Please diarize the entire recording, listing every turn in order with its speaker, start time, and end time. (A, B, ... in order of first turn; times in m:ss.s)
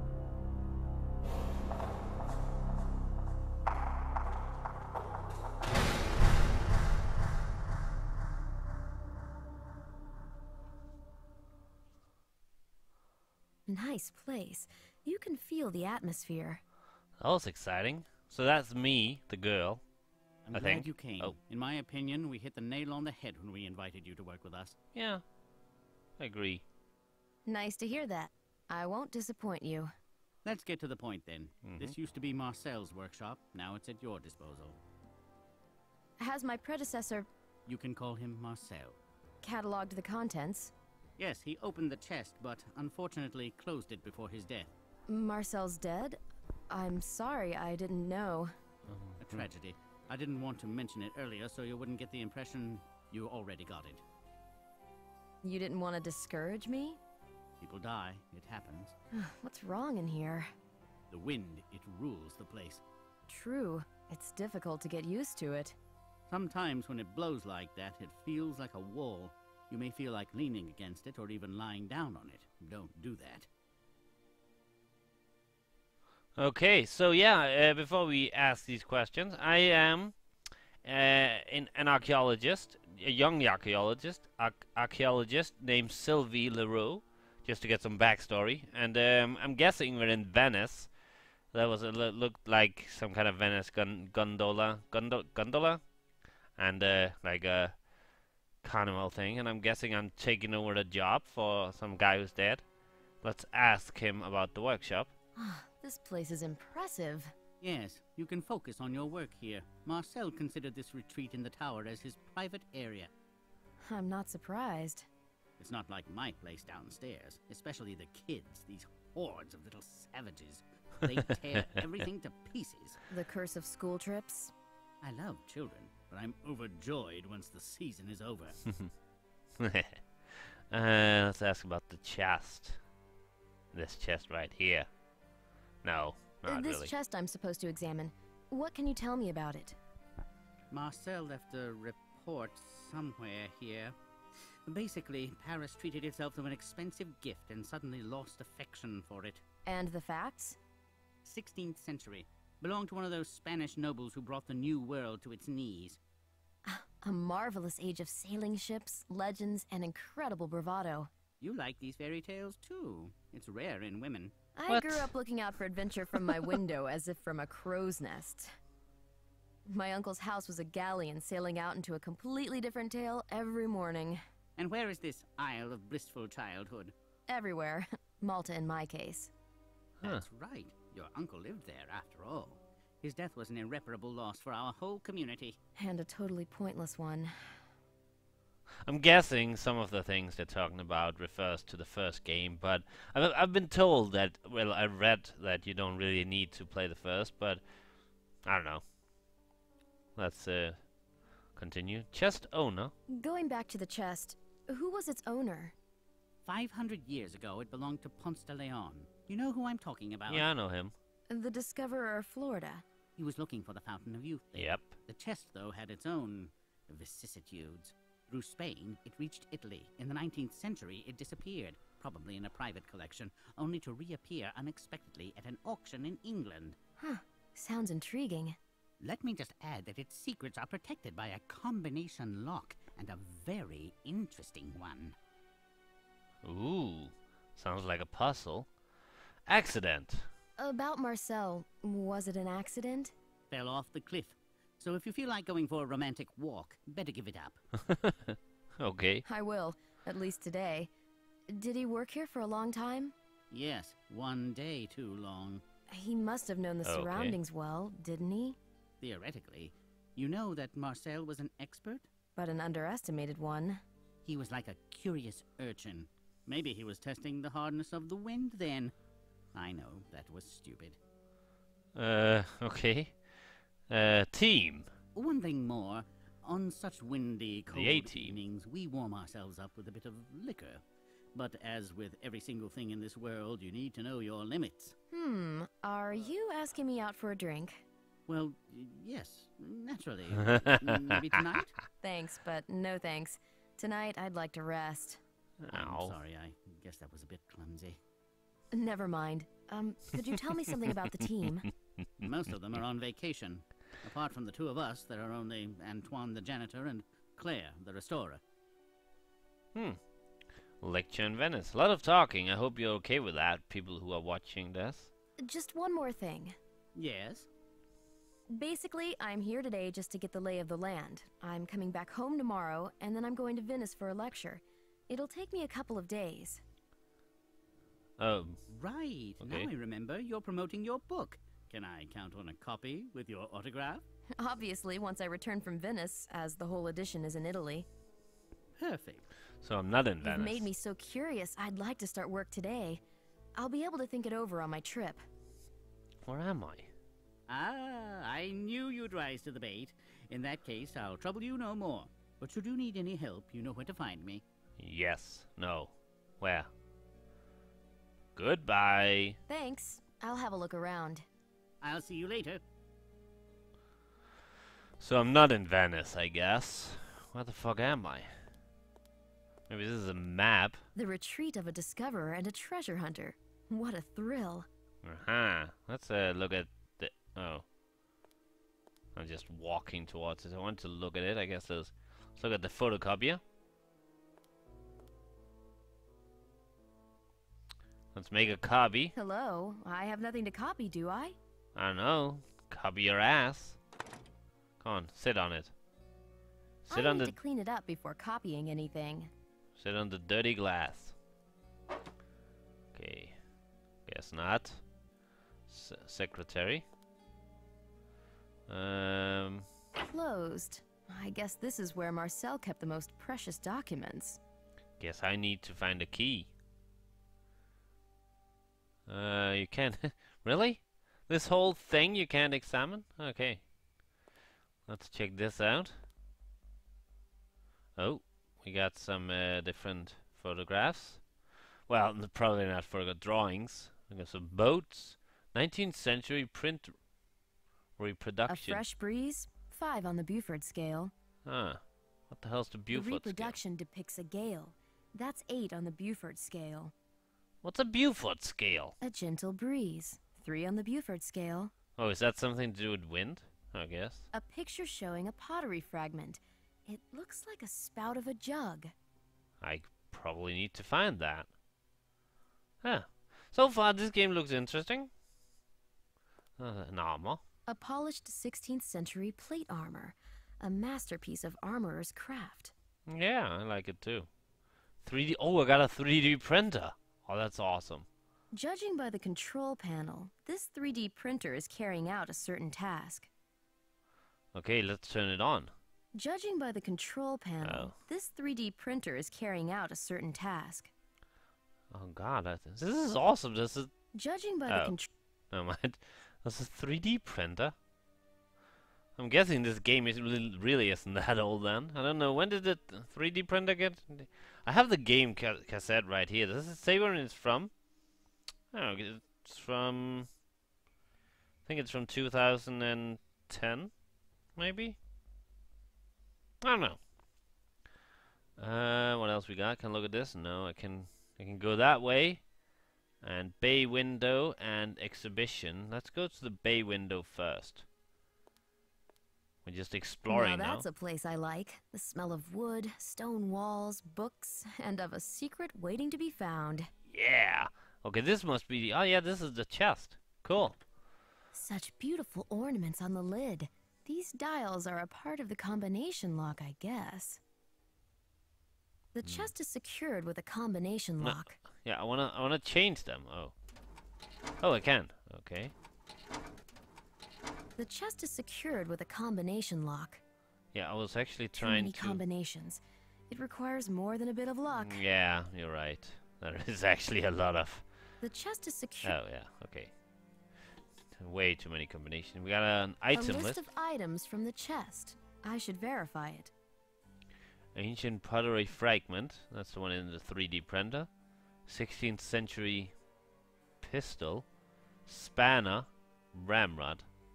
0:13.7-0:16.6 A
0:17.2-0:19.8 B
0:20.4-0:24.8 C
0:20.5-0:21.3 B
0:24.9-0:25.2 B
0:26.2-0:26.6 B
0:27.4-0:29.9 A
0:30.4-0:34.8 C
0:31.6-0:32.0 B
0:36.2-0:37.3 A
0:37.6-0:39.0 C
0:39.4-0:40.7 A
0:41.2-0:44.7 C
0:45.1-0:46.2 A
0:46.7-0:48.5 A
0:48.9-0:49.4 B
0:49.2-0:54.0 C
0:55.4-0:57.0 A
0:57.6-0:58.9 C
0:59.1-1:00.5 A
1:01.1-1:02.8 C
1:03.3-1:05.8 A
1:06.3-1:13.5 C
1:16.4-1:20.2 B
1:20.8-1:30.9 B
1:31.5-1:35.8 B
1:36.6-1:37.8 B
1:38.6-1:42.6 B
1:43.2-1:45.1 B
1:45.4-1:47.3 A
1:47.6-1:53.1 C
1:53.8-1:55.1 A
1:55.6-2:03.0 C
2:03.1-2:04.5 A
2:05.0-2:08.6 C
2:08.6-2:08.9 B
2:09.6-2:12.8 B
2:13.7-2:14.9 B
2:15.8-2:16.9 B
2:16.4-2:19.8 A
2:20.7-2:23.9 C
2:24.7-2:29.4 C
2:29.6-2:30.6 A
2:31.2-2:36.0 C
2:36.6-2:41.1 A
2:41.4-2:44.3 C
2:44.6-2:48.5 A
2:44.7-2:45.1 B
2:49.7-2:54.2 A
2:54.6-2:56.9 C
2:57.3-2:59.3 A
3:00.0-3:05.6 C
3:05.8-3:07.5 A
3:08.8-3:17.6 B
3:18.4-3:18.8 B
3:20.2-3:20.8 B
3:21.6-3:22.9 B
3:23.1-3:25.7 A
3:26.4-3:30.5 C
3:30.3-3:30.9 B
3:31.3-3:32.8 A
3:33.2-3:46.8 C
3:34.5-3:35.0 B
3:47.0-3:48.6 A
3:49.0-3:55.2 C
3:56.4-3:58.7 B
3:59.5-4:00.3 B
4:00.6-4:03.1 A
4:03.5-4:07.6 C
4:07.8-4:09.2 B
4:09.2-4:10.9 A
4:11.5-4:13.1 A
4:13.5-4:15.6 C
4:15.9-4:18.6 A
4:16.8-4:17.4 B
4:19.0-4:22.1 C
4:22.4-4:23.8 A
4:24.2-4:28.9 C
4:29.5-4:31.0 C
4:31.9-4:33.2 B
4:33.9-4:34.9 B
4:35.1-4:40.8 C
4:37.7-4:38.4 B
4:41.3-4:45.0 C
4:45.1-4:47.8 A
4:48.3-4:51.7 C
4:50.6-4:51.0 B
4:52.0-4:55.2 A
4:55.6-4:56.2 B
4:55.7-4:58.0 C
4:58.7-5:01.7 A
5:02.2-5:08.4 C
5:10.8-5:15.1 B
5:15.4-5:16.6 A
5:16.9-5:17.5 C
5:18.5-5:26.6 A
5:28.2-5:28.6 B
5:28.7-5:34.0 C
5:29.4-5:29.7 B
5:34.4-5:37.9 A
5:38.8-5:39.3 C
5:39.6-5:40.7 B
5:40.2-5:43.0 A
5:43.6-5:45.2 A
5:46.2-5:46.9 B
5:47.5-5:54.4 C
5:54.8-5:56.7 B
5:58.4-5:59.4 B
5:59.5-6:01.2 A
6:01.8-6:02.6 C
6:05.0-6:08.5 B
6:09.7-6:10.8 B
6:11.0-6:14.6 A
6:15.0-6:17.6 B
6:19.1-6:23.4 B
6:28.1-6:29.1 B
6:29.1-6:31.4 A
6:31.7-6:33.8 B
6:34.8-6:35.7 B
6:36.8-6:37.4 B
6:36.9-6:39.3 A
6:39.8-6:41.1 B
6:42.9-6:43.4 B
6:44.1-6:44.8 B
6:45.7-6:46.9 B
6:48.7-6:49.7 B
6:50.1-6:54.4 A
6:55.0-6:56.5 B
6:59.1-7:03.6 B
7:04.9-7:06.0 B
7:08.0-7:11.2 B
7:11.9-7:16.9 B
7:18.0-7:18.8 B
7:18.5-7:21.1 A
7:21.4-7:23.6 B
7:22.9-7:26.9 A
7:27.6-7:29.0 B
7:29.0-7:31.7 A
7:32.0-7:34.3 B
7:34.3-7:38.9 A
7:39.6-7:41.5 B
7:42.8-7:45.1 B
7:46.6-7:47.4 B
7:47.7-7:52.7 A
7:53.1-7:54.3 B
7:55.0-7:58.1 B
7:58.5-8:03.3 A
8:04.5-8:05.7 B
8:06.1-8:10.9 A
8:07.6-8:07.9 B
8:11.9-8:13.9 B
8:14.1-8:15.1 A
8:14.7-8:14.9 B
8:15.5-8:17.7 B
8:19.2-8:27.7 B
8:28.7-8:30.3 B
8:31.6-8:33.9 B
8:34.6-8:35.0 B
8:36.6-8:37.0 B
8:38.6-8:42.4 B
8:43.2-8:47.8 B
8:49.6-8:50.9 B
8:50.3-8:56.9 A
8:57.1-9:00.8 B
9:01.5-9:07.4 A
9:09.1-9:11.6 A
9:09.2-9:09.5 B
9:11.2-9:13.5 B
9:14.6-9:15.7 B
9:17.8-9:20.2 A
9:20.7-9:22.2 B
9:21.6-9:25.0 A
9:24.7-9:27.8 B
9:28.2-9:29.2 A
9:29.0-9:29.9 B
9:31.1-9:33.6 B
9:33.1-9:36.5 A
9:37.7-9:41.1 B
9:41.7-9:42.9 B
9:43.8-9:44.5 B
9:45.0-9:47.0 B